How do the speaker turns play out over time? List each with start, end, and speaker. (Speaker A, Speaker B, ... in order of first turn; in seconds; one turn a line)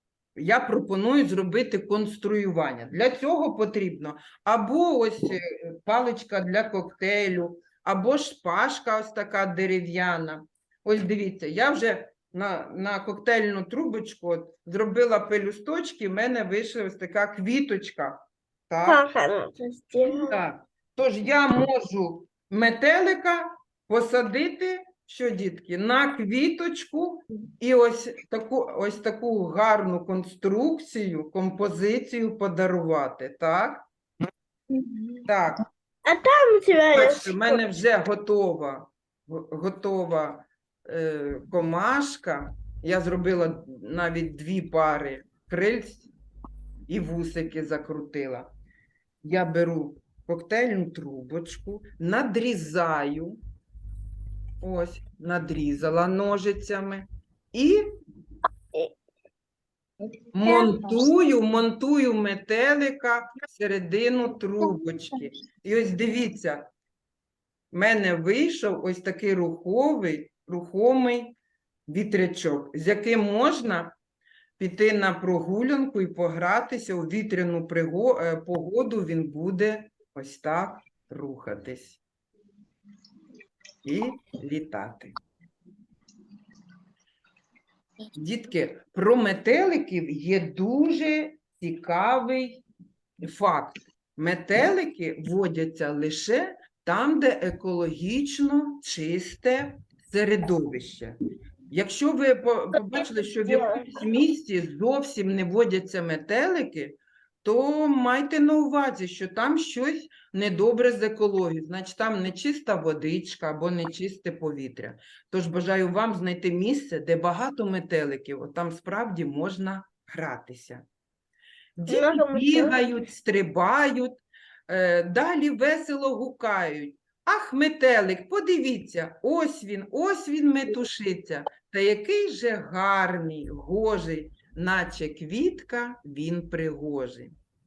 Speaker A: 0.3-19.0
Speaker B: 18.8-20.4
Speaker A: 20.1-33.9
Speaker A: 35.2-35.6
Speaker B: 36.0-37.6
Speaker A: 36.9-46.1
Speaker A: 46.9-48.5
Speaker A: 49.2-53.4
Speaker A: 54.6-57.8
Speaker A: 60.3-66.7
Speaker A: 67.7-71.3
Speaker A: 71.9-73.9
Speaker A: 74.6-82.0
Speaker A: 83.8-85.1
Speaker A: 88.1-92.6
Speaker A: 93.2-101.2
Speaker A: 101.7-120.8
Speaker B: 102.8-104.0
Speaker A: 121.8-137.3
Speaker B: 121.9-122.8